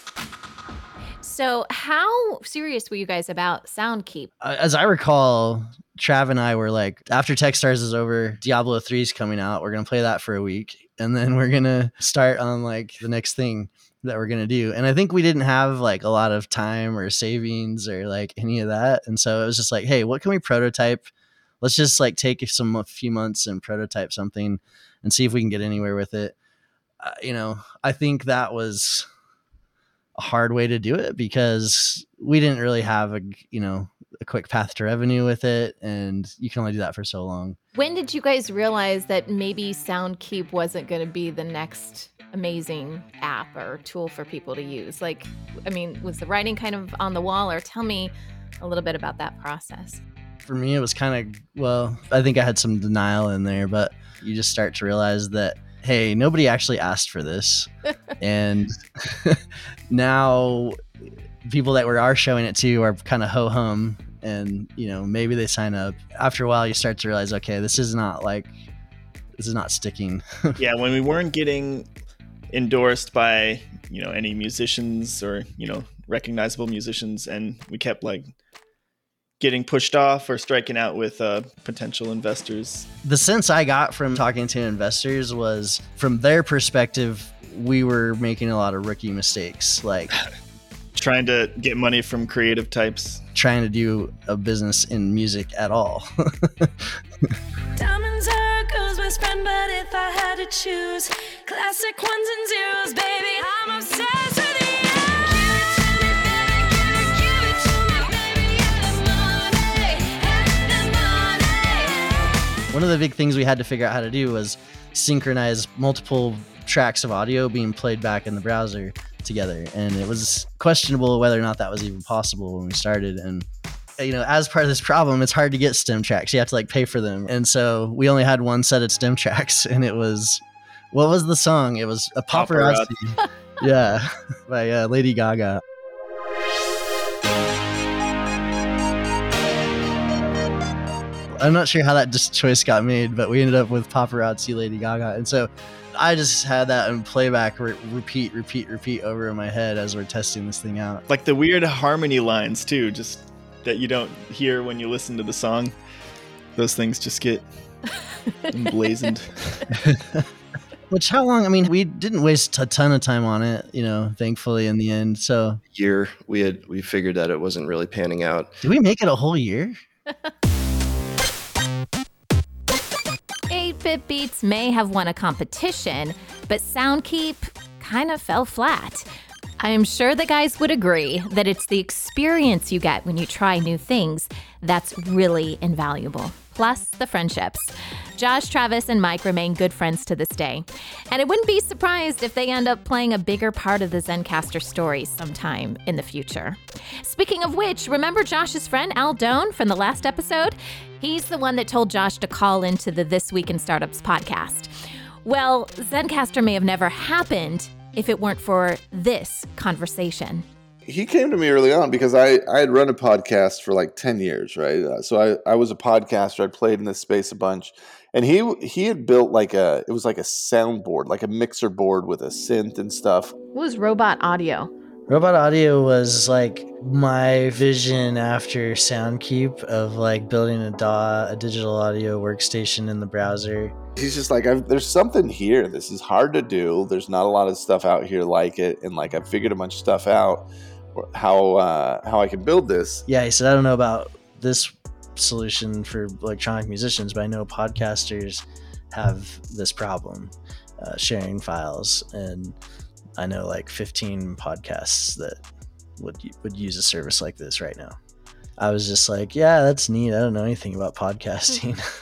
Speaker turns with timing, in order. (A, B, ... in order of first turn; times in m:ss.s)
0:01.2-0:04.3 A
0:04.4-0:21.1 B
0:21.6-0:26.3 B
0:27.0-0:29.0 B
0:30.2-0:37.6 B
0:37.7-0:50.0 A
0:50.4-1:00.8 B
1:01.4-1:08.5 B
1:09.4-1:10.6 B
1:10.6-1:11.9 C
1:12.5-1:18.3 C
1:19.4-1:22.9 C
1:23.0-1:30.1 B
1:30.9-1:33.2 C
1:33.3-1:37.3 B
1:37.8-1:52.1 D
1:52.7-2:03.4 B
2:04.0-2:15.6 B
2:12.3-2:12.9 C
2:21.4-2:31.0 B
2:31.1-2:35.7 C
2:36.6-2:37.5 C
2:38.2-2:38.6 A
2:38.5-2:39.6 C
2:39.8-2:40.3 B
2:40.9-2:45.6 B
2:45.7-2:48.5 E
2:48.6-2:49.8 B
2:53.5-2:59.0 A
2:59.6-3:24.7 A
3:25.2-3:30.4 A
3:30.8-3:43.3 F
3:43.5-3:44.7 A
3:45.1-3:53.7 B
3:54.0-4:03.0 F
4:03.1-4:12.6 B
4:13.2-4:15.4 B
4:16.0-4:17.9 B
4:18.6-4:21.8 B